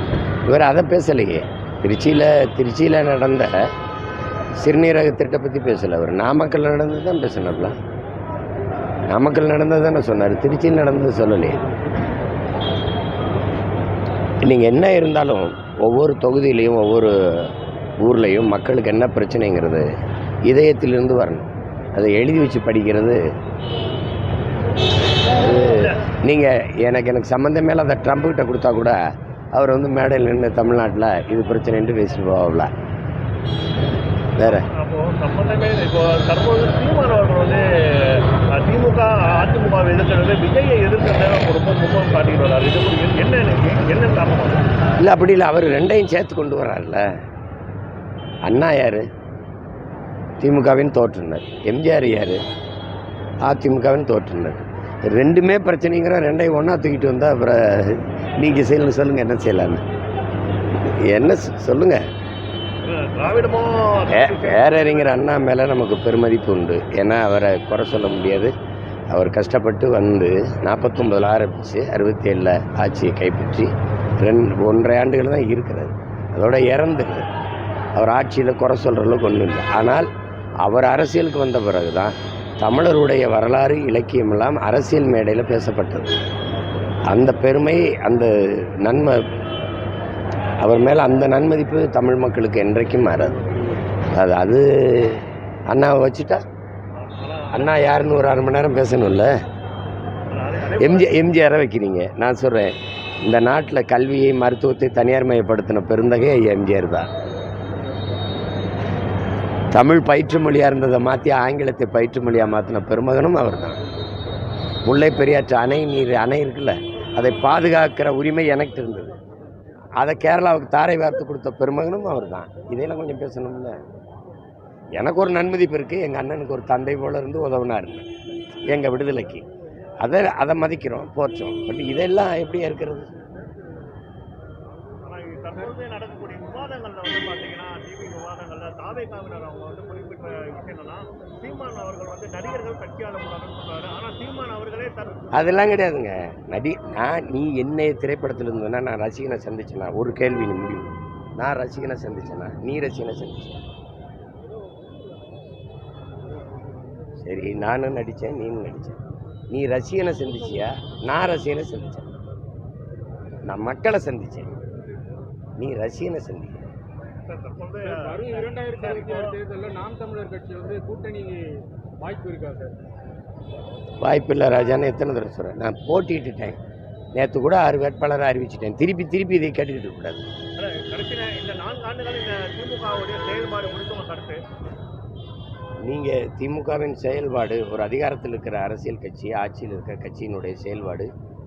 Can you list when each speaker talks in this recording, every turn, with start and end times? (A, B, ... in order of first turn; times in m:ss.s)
0:00.5-0:03.7 A
0:04.6-0:07.7 A
0:09.1-0:11.6 A
0:14.4-0:19.9 A
0:20.4-0:23.2 A
0:25.3-0:29.0 A
0:29.5-0:32.7 A
0:34.4-0:34.7 A
0:34.4-0:44.6 B
0:45.0-0:47.0 A
0:48.4-0:49.0 A
0:50.4-0:52.4 A
0:53.4-0:59.8 A
1:01.0-1:02.0 A
1:02.8-1:05.1 B
1:04.1-1:08.5 A
1:09.1-1:13.7 A
1:14.2-1:17.3 A
1:17.9-1:20.1 A
1:20.6-1:26.2 A
1:27.1-1:29.2 A
1:30.6-1:33.4 A
1:34.2-1:36.4 A
1:37.0-1:37.7 B
1:37.5-1:39.3 A
1:40.3-1:41.2 B
1:40.8-1:47.1 A
1:49.7-1:53.8 A
1:54.8-1:59.2 A
2:00.0-2:03.8 A
2:05.0-2:08.1 A
2:08.7-2:09.5 A
2:10.0-2:13.1 A
2:15.0-2:25.6 B
2:25.3-2:33.6 A
2:37.2-2:39.0 A
2:39.5-2:42.1 A
2:43.5-2:44.5 A
2:45.6-2:46.6 A
2:47.2-2:49.3 B
2:47.8-2:52.8 C
2:54.0-2:56.6 A
2:57.1-3:00.2 A
3:00.6-3:04.4 B
3:05.8-3:11.1 A